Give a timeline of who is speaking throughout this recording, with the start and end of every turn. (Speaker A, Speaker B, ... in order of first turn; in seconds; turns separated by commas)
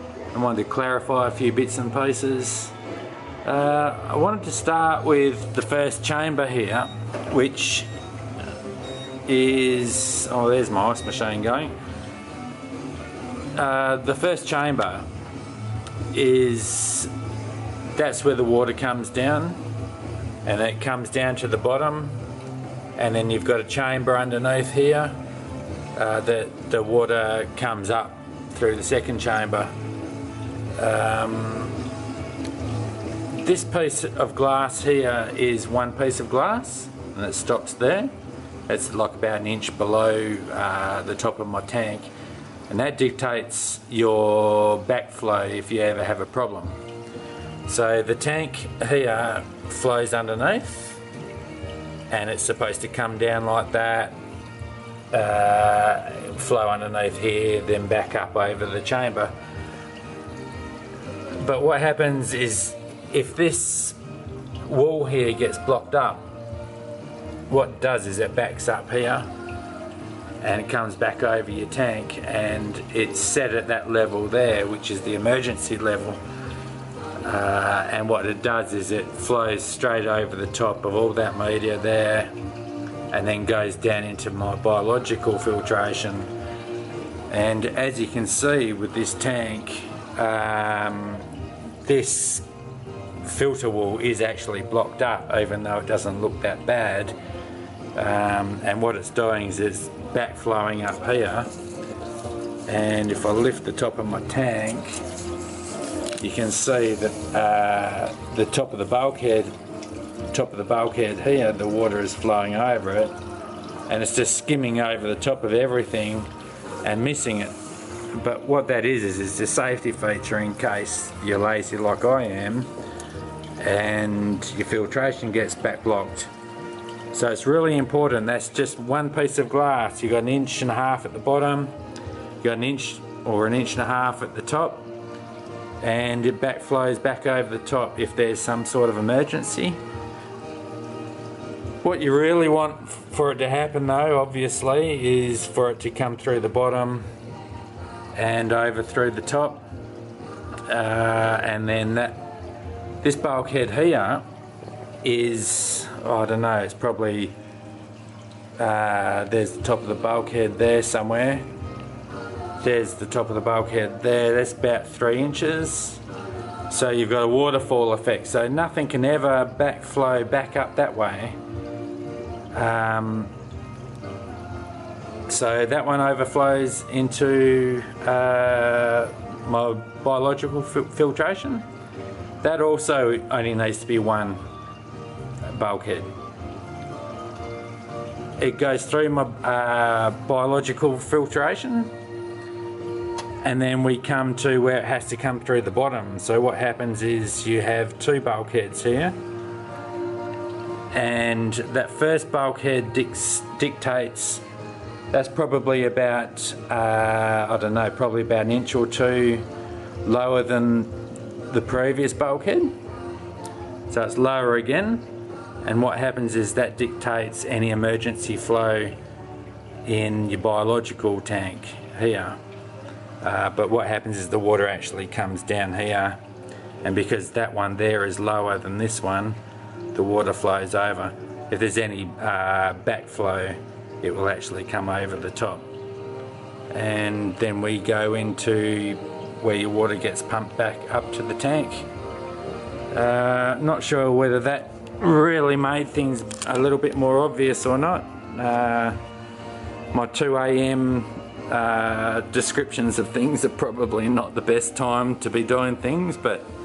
Speaker A: 0.3-2.7, Speaker A: 3.4-7.9, Speaker A: 9.2-11.7, Speaker A: 13.5-15.0, Speaker A: 16.1-17.1, Speaker A: 17.9-19.6, Speaker A: 20.4-22.2, Speaker A: 22.9-25.1, Speaker A: 25.9-29.7, Speaker A: 30.8-31.8, Speaker A: 33.3-38.1, Speaker A: 38.7-42.1, Speaker A: 42.7-46.8, Speaker A: 47.6-51.0, Speaker A: 52.1-54.1, Speaker A: 55.1-59.3, Speaker A: 61.4-64.0, Speaker A: 64.7-66.2, Speaker A: 67.5-69.2, Speaker A: 70.4-76.2, Speaker A: 77.2-82.3, Speaker A: 83.1-86.3, Speaker A: 87.3-91.2, Speaker A: 91.8-92.5, Speaker A: 93.2-97.1, Speaker A: 97.9-101.5, Speaker A: 102.7-104.9, Speaker A: 106.2-109.5, Speaker A: 110.3-113.1, Speaker A: 113.9-116.3, Speaker A: 116.8-117.5, Speaker A: 118.1-122.7, Speaker A: 123.6-126.3, Speaker A: 127.1-131.7, Speaker A: 132.4-134.8, Speaker A: 135.8-139.8, Speaker A: 141.8-147.0, Speaker A: 148.1-149.6, Speaker A: 150.7-152.2, Speaker A: 153.0-154.2, Speaker A: 155.0-157.3, Speaker A: 158.6-161.4, Speaker A: 162.6-166.0, Speaker A: 166.7-171.4, Speaker A: 172.5-173.3, Speaker A: 175.3-181.6, Speaker A: 182.4-184.4, Speaker A: 185.5-186.1, Speaker A: 188.4-191.9, Speaker A: 193.4-199.2, Speaker A: 200.9-204.4, Speaker A: 205.1-209.4, Speaker A: 210.0-210.9, Speaker A: 211.5-212.7, Speaker A: 213.9-215.1, Speaker A: 215.6-218.9, Speaker A: 219.8-222.4, Speaker A: 223.2-226.2, Speaker A: 226.8-229.4, Speaker A: 229.9-235.6, Speaker A: 236.7-241.9, Speaker A: 242.9-249.0, Speaker A: 249.9-256.4